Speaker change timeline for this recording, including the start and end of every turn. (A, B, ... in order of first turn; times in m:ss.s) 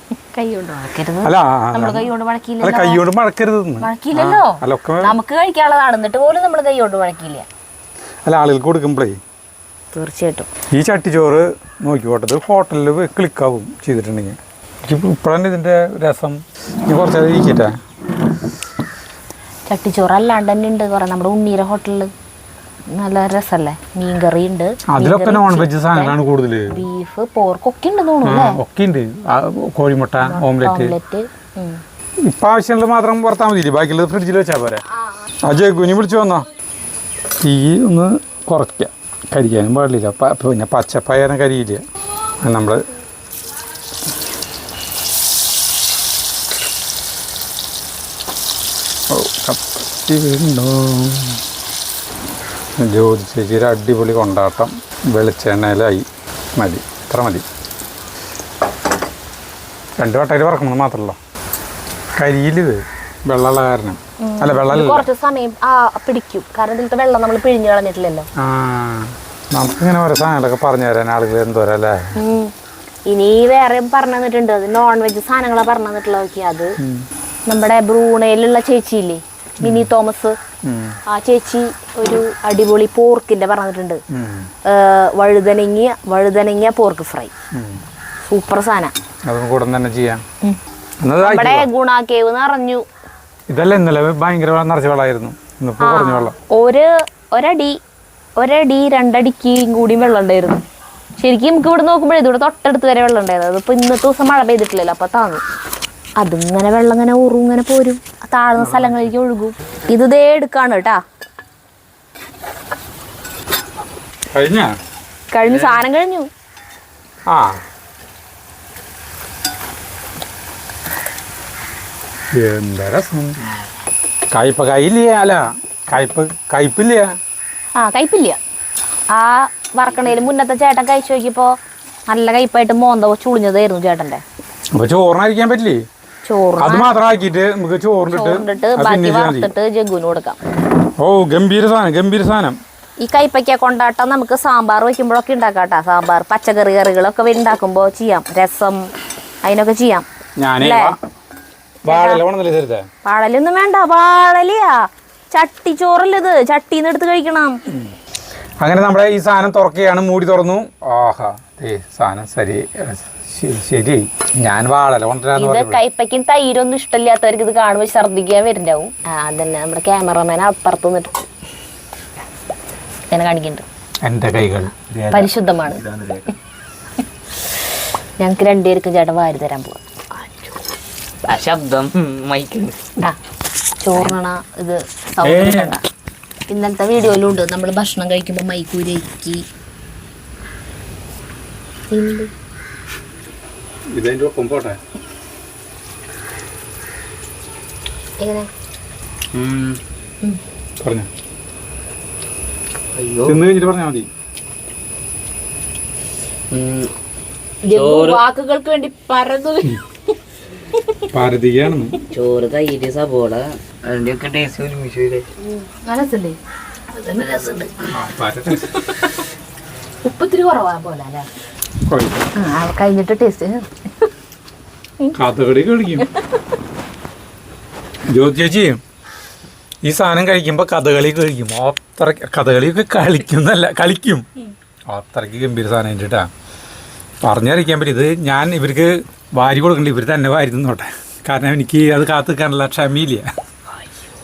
0:00.3-0:03.0 A
0:01.2-0:02.1 B
0:02.6-0:05.1 B
0:03.8-0:07.4 A
0:08.2-0:09.2 B
0:09.9-0:10.5 A
0:10.7-0:17.7 B
0:19.7-0:22.1 A
0:22.9-0:26.2 A
0:24.9-0:26.8 B
0:26.7-0:28.6 A
0:28.2-0:31.0 B
0:30.2-0:31.8 A
0:32.3-0:34.8 B
0:35.4-0:36.4 B
0:37.4-0:41.8 B
0:42.4-0:42.8 B
0:49.1-0:51.4 B
0:52.8-0:57.4 B
1:00.0-1:01.2 B
1:02.2-1:05.0 B
1:04.2-1:08.3 A
1:08.4-1:12.1 B
1:12.2-1:12.5 A
1:13.1-1:16.8 A
1:16.8-1:17.1 B
1:17.5-1:20.4 A
1:19.6-1:19.9 B
1:20.6-1:21.0 B
1:21.1-1:24.0 A
1:24.1-1:24.5 B
1:24.6-1:27.3 A
1:27.5-1:27.8 B
1:28.2-1:28.9 A
1:29.3-1:30.2 B
1:31.0-1:31.7 B
1:31.2-1:32.8 A
1:33.5-1:36.4 B
1:35.8-1:37.8 A
1:38.4-1:40.6 A
1:41.2-1:45.4 A
1:46.2-1:51.0 A
1:54.3-1:54.7 B
1:55.3-1:56.3 A
1:55.4-1:55.8 C
1:57.3-1:57.6 B
2:02.3-2:03.4 B
2:04.3-2:07.1 B
2:07.8-2:08.4 A
2:09.1-2:11.5 A
2:12.1-2:14.2 A
2:14.8-2:15.8 B
2:16.2-2:17.0 A
2:16.6-2:19.5 B
2:18.1-2:20.4 A
2:21.0-2:22.6 B
2:23.0-2:28.9 A
2:29.4-2:30.0 A
2:30.4-2:31.0 B
2:30.6-2:30.9 A
2:31.8-2:32.8 B
2:31.9-2:32.2 A
2:33.0-2:37.6 A
2:38.6-2:45.8 B
2:45.4-2:51.2 A
2:53.1-2:53.6 A
2:54.0-2:55.3 B
2:55.1-2:55.8 A
2:55.8-2:56.3 C
2:58.2-3:00.5 A
3:01.2-3:03.0 C
3:03.8-3:05.8 A
3:05.2-3:05.7 B
3:06.5-3:09.4 A
3:11.9-3:12.3 A
3:13.9-3:14.8 B
3:18.2-3:18.5 A
3:19.3-3:19.8 C
3:20.8-3:21.1 B
3:22.9-3:23.4 C
3:23.2-3:24.1 B
3:26.5-3:26.9 C
3:27.6-3:29.8 A
3:27.7-3:28.2 C
3:30.7-3:31.0 A
3:31.1-3:32.0 B
3:32.1-3:35.2 C
3:35.4-3:36.4 A
3:36.9-3:37.8 A
3:37.9-3:38.7 B
3:38.6-3:39.2 A
3:40.0-3:41.3 A
3:41.9-3:42.3 B
3:42.4-3:44.1 A
3:45.1-3:46.1 B
3:48.1-3:48.8 B
3:49.8-3:54.2 B
3:54.9-3:56.3 B
3:57.2-4:03.3 B